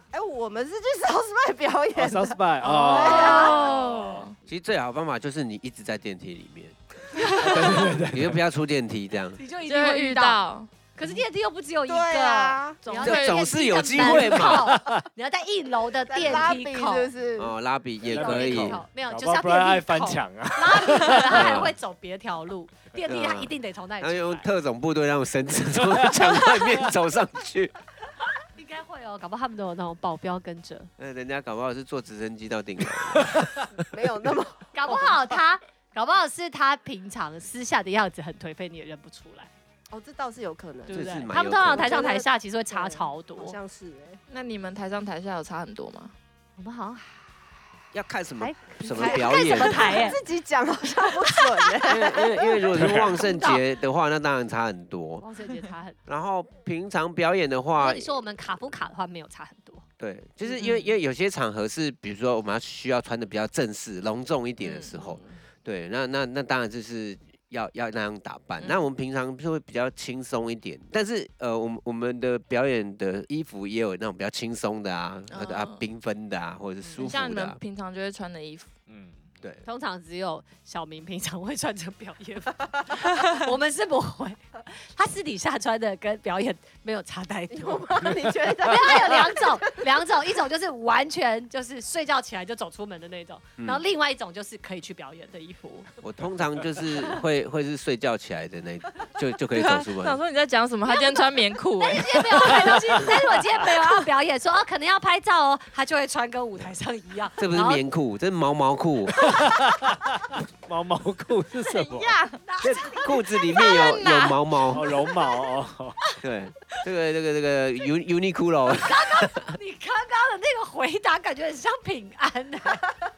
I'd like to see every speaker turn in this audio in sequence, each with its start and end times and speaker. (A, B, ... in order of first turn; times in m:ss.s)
0:00.1-0:03.6 A
0:01.9-0:04.3 B
0:02.6-0:04.4 C
0:03.0-0:03.5 D
0:04.5-0:09.4 E
0:07.2-0:07.7 C
0:07.4-0:08.4 B
0:09.4-0:10.4 D
0:09.6-0:11.1 C
0:10.9-0:17.1 D
0:11.9-0:12.8 A
0:12.8-0:14.3 C
0:13.0-0:14.7 E
0:14.0-0:15.0 B
0:16.1-0:17.6 A
0:17.4-0:18.8 E
0:18.0-0:21.6 B
0:18.1-0:24.5 D
0:18.2-0:18.6 A
0:21.3-0:21.7 E
0:23.0-0:27.7 E
0:25.9-0:26.7 B
0:28.6-0:30.9 D
0:31.0-0:33.5 E
0:33.1-0:33.4 B
0:33.8-0:35.2 A
0:34.7-0:39.5 D
0:39.9-0:44.2 A
0:40.9-0:43.6 D
0:40.9-0:42.0 E
0:44.3-0:46.1 C
0:46.6-0:47.6 D
0:47.9-0:50.1 E
0:48.4-0:50.2 D
0:48.8-0:52.7 A
0:51.8-0:55.2 E
0:52.7-0:53.2 B
0:53.2-0:53.6 D
0:55.2-0:56.0 D
0:56.0-0:58.1 E
0:57.8-0:59.8 D
1:00.0-1:17.6 E
1:00.6-1:00.9 C
1:04.6-1:05.0 C
1:05.0-1:05.4 D
1:08.6-1:08.9 C
1:15.3-1:15.9 C
1:17.0-1:18.7 C
1:18.9-1:19.2 B
1:19.6-1:35.9 D
1:27.5-1:29.8 A
1:36.0-1:40.2 E
1:39.5-1:43.2 C
1:40.9-1:47.8 D
1:47.4-1:49.2 E
1:49.4-1:52.2 B
1:51.6-1:52.4 C
1:52.4-1:53.2 D
1:52.6-1:55.0 E
1:53.5-1:54.4 C
1:54.7-1:56.0 B
1:56.2-1:59.5 E
1:58.7-2:02.9 D